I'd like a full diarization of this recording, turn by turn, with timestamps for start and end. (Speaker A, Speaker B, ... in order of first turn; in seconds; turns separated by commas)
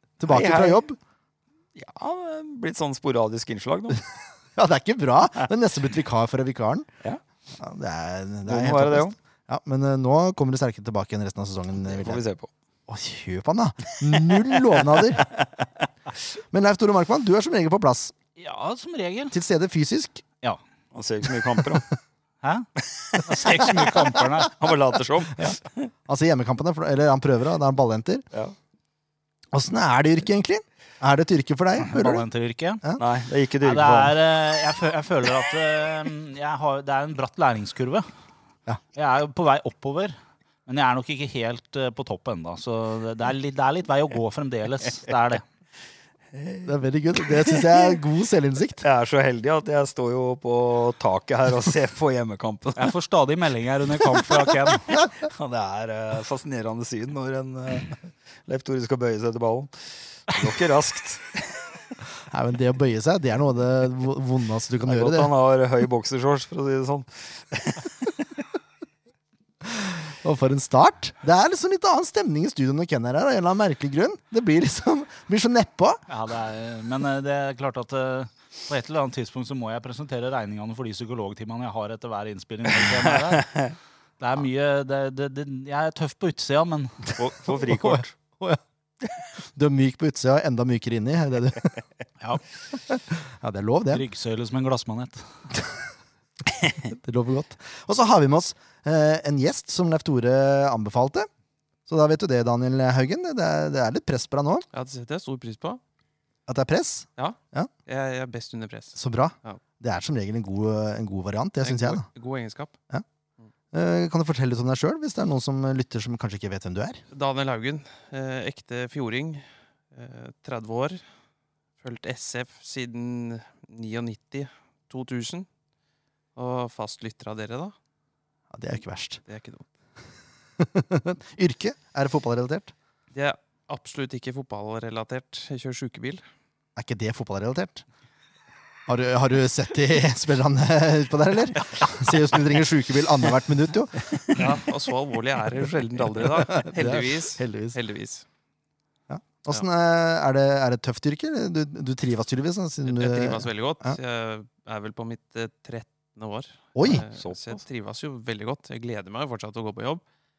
Speaker A: 0.2-1.0, Speaker B: 0.2-0.8, Speaker B: 1.8-4.0, Speaker A: 4.6-6.9, Speaker A: 7.5-12.2, Speaker B: 8.5-9.1, Speaker B: 11.8-12.5, Speaker A: 12.9-15.3, Speaker B: 14.9-15.7, Speaker A: 16.5-18.1, Speaker C: 18.4-19.3, Speaker A: 19.3-20.2, Speaker B: 20.9-21.9, Speaker C: 22.4-22.7, Speaker B: 22.8-23.4, Speaker C: 23.2-24.5, Speaker A: 23.6-24.2, Speaker B: 24.5-25.9, Speaker A: 26.1-28.2, Speaker A: 29.5-32.3, Speaker C: 31.8-32.8, Speaker B: 33.0-34.1, Speaker C: 33.6-38.1, Speaker C: 38.9-45.4, Speaker B: 46.3-46.7, Speaker A: 46.6-48.8, Speaker B: 47.2-48.0, Speaker B: 48.8-52.9, Speaker C: 52.8-54.9, Speaker B: 55.0-61.8, Speaker A: 62.3-65.3, Speaker B: 64.8-68.2, Speaker A: 69.6-76.0, Speaker C: 76.1-83.5, Speaker B: 82.8-83.7, Speaker C: 84.2-87.1, Speaker B: 87.2-88.2, Speaker A: 87.6-88.6, Speaker A: 89.5-91.8, Speaker A: 92.7-94.0, Speaker C: 93.9-95.2, Speaker A: 96.8-101.3, Speaker A: 101.9-104.7, Speaker D: 104.7-105.8, Speaker A: 106.5-107.7, Speaker D: 107.2-109.6, Speaker A: 109.0-112.0, Speaker D: 111.6-112.7, Speaker A: 113.7-117.0, Speaker D: 117.1-121.0, Speaker D: 121.8-125.5, Speaker D: 126.4-127.8, Speaker A: 128.5-129.2, Speaker D: 129.3-129.7, Speaker A: 130.6-132.7, Speaker D: 133.1-136.2, Speaker A: 136.8-137.8, Speaker A: 138.9-144.4, Speaker D: 144.3-148.2, Speaker A: 146.2-147.8, Speaker A: 149.1-154.0, Speaker D: 152.8-160.0, Speaker A: 156.8-157.1, Speaker B: 157.1-157.6